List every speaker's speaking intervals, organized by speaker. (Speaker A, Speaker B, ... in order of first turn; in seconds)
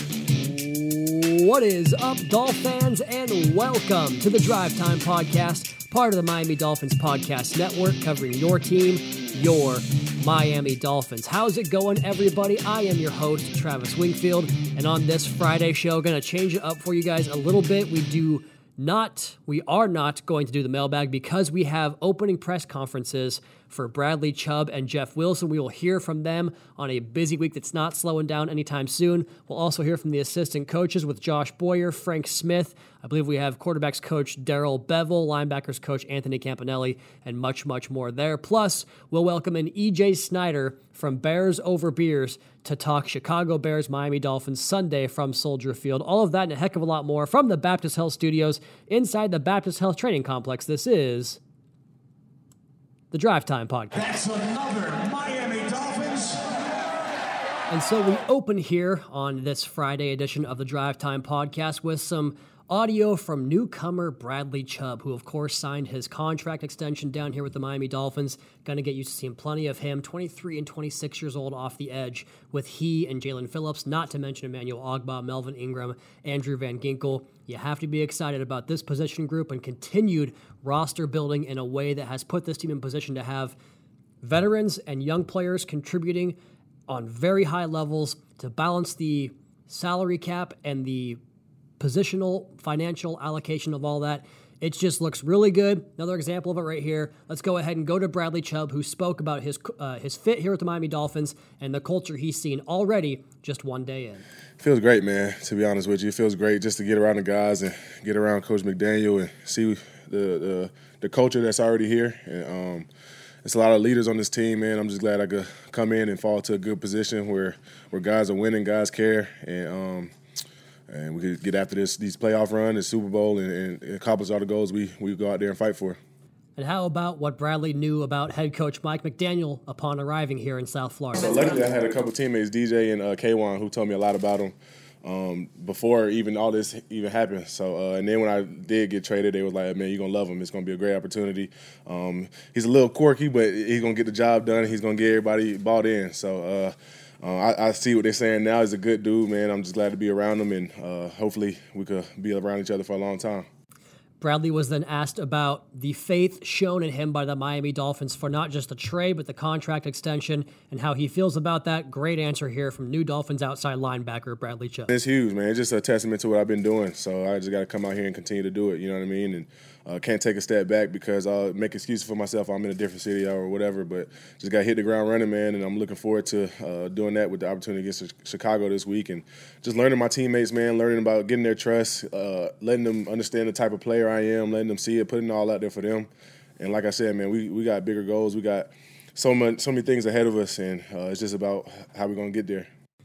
Speaker A: 0.4-51.4, 53.1-54.1, 57.7-83.5, 84.2-86.4, 86.9-91.2, 91.8-104.2, 126.6-131.3, 154.2-164.9
Speaker B: 54.0-56.4
Speaker C: 104.6-112.9, 113.4-120.1, 120.9-126.0, 131.2-153.5, 164.9-186.1, 186.6-192.7